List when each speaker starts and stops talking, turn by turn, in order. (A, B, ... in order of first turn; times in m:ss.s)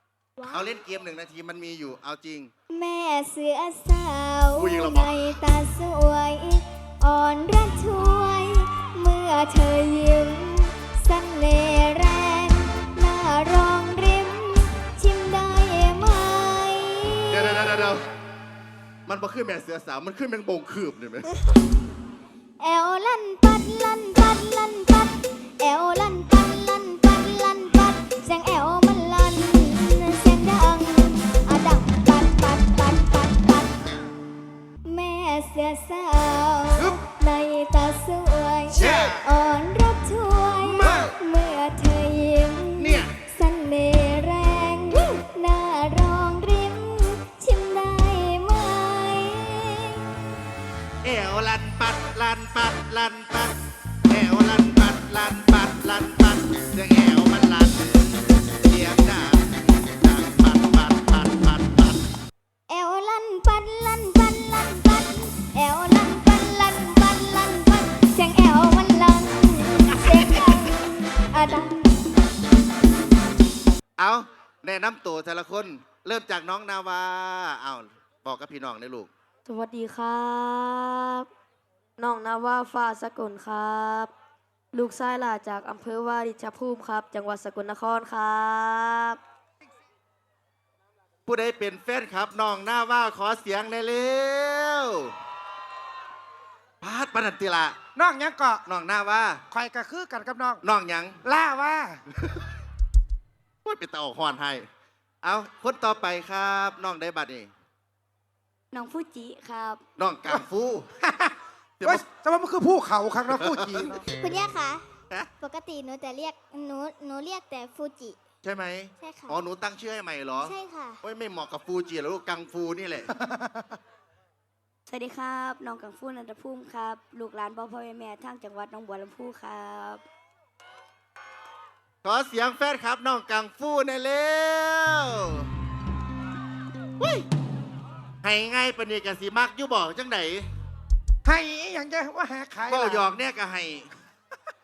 0:00.4-0:00.7 A
0:00.5-0:02.5 B
0:02.7-0:17.6 A
0:04.5-0:05.2 B
0:17.3-0:18.0 B
0:19.1-0:21.3 B
0:22.6-0:33.9 A
0:34.8-0:50.1 A
0:38.8-0:39.2 C
0:38.8-0:39.2 B
0:40.7-0:41.1 B
0:40.8-0:41.1 C
0:42.8-0:43.1 B
0:51.0-0:53.5 B
0:54.1-1:02.0 B
1:02.7-1:12.0 A
1:14.0-1:19.1 B
1:19.4-1:21.3 D
1:22.0-1:24.1 D
1:24.7-1:29.2 D
1:31.2-1:35.1 B
1:36.8-1:37.8 B
1:38.0-1:38.6 C
1:38.7-1:39.4 B
1:39.5-1:40.6 C
1:40.6-1:41.2 B
1:41.2-1:42.0 C
1:43.6-1:44.6 B
1:45.2-1:47.5 B
1:48.7-1:49.8 D
1:50.0-1:50.9 B
1:51.0-1:54.0 C
1:53.3-1:54.0 B
1:54.1-1:54.8 A
1:55.4-1:58.2 A
1:58.4-2:03.1 B
1:59.0-1:59.4 A
2:00.4-2:01.0 A
2:03.2-2:03.7 C
2:04.9-2:10.0 D
2:12.0-2:15.5 B
2:17.0-2:17.2 B
2:18.2-2:20.5 B
2:21.2-2:23.0 C
2:22.7-2:23.9 B